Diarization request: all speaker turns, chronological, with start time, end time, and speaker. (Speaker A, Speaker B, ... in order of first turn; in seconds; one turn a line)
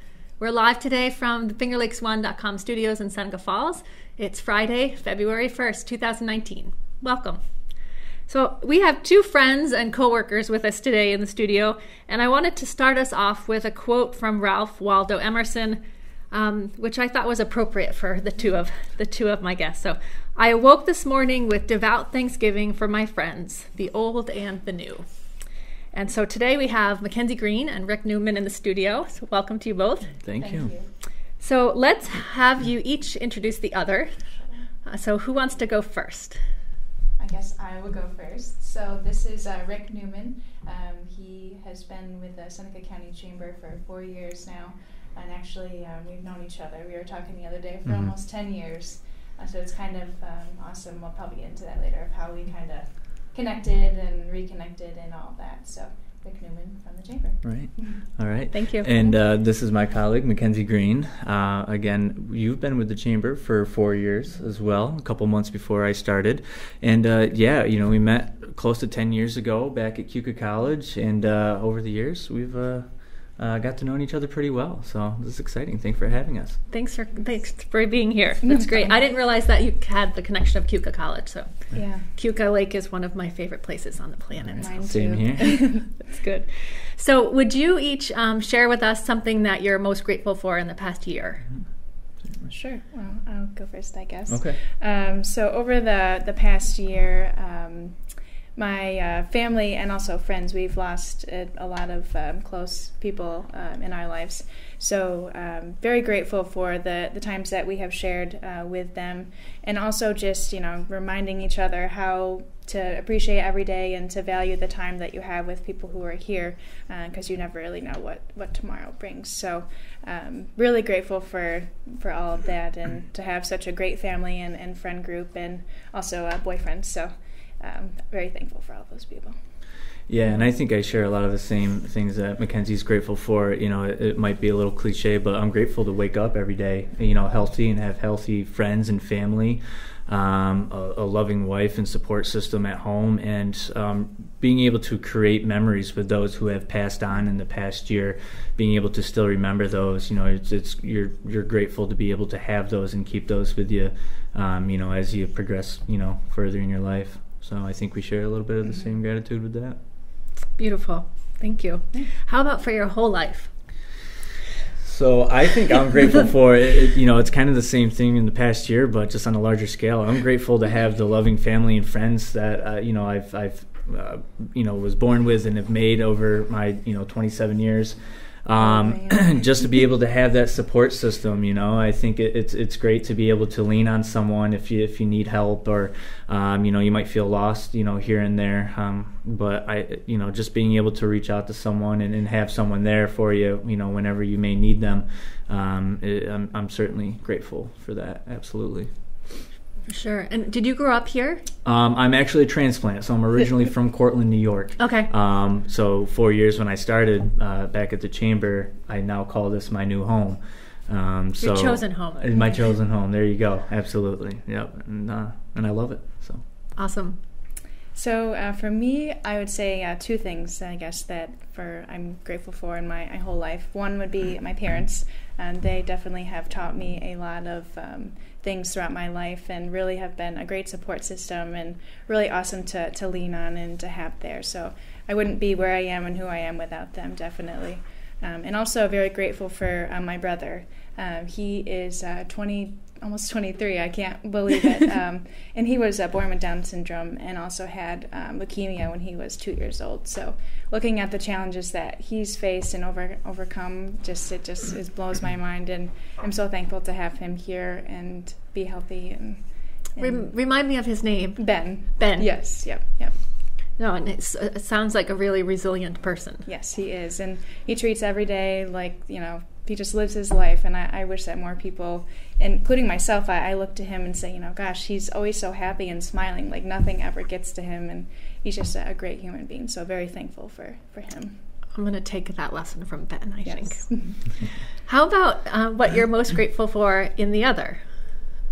Speaker A: 0.4-7.4
Speaker A: 8.3-25.1
Speaker A: 25.9-30.2
Speaker B: 30.2-30.7
Speaker C: 30.4-30.9
Speaker A: 31.4-34.2
Speaker A: 34.8-36.4
Speaker C: 37.2-58.0
Speaker B: 47.9-48.1
Speaker B: 57.4-76.6
Speaker A: 58.5-59.1
Speaker A: 76.7-91.5
Speaker C: 81.7-82.1
Speaker B: 84.5-85.6
Speaker C: 84.5-85.9
Speaker C: 92.5-129.4
Speaker B: 94.3-94.6
Speaker B: 130.1-159.8
Speaker A: 160.6-163.5
Speaker B: 164.8-198.9
Speaker C: 178.7-179.4
Speaker A: 199.9-201.5
Speaker B: 201.7-216.4
Speaker A: 204.8-205.1
Speaker A: 211.4-212.4
Speaker A: 216.8-217.2
Speaker C: 217.9-259.4
Speaker C: 259.9-260.3
Speaker A: 260.0-262.5
Speaker C: 261.4-263.1
Speaker A: 263.8-266.5
Speaker C: 266.5-281.4
Speaker A: 281.7-284.1
Speaker C: 283.4-284.2
Speaker A: 284.9-287.8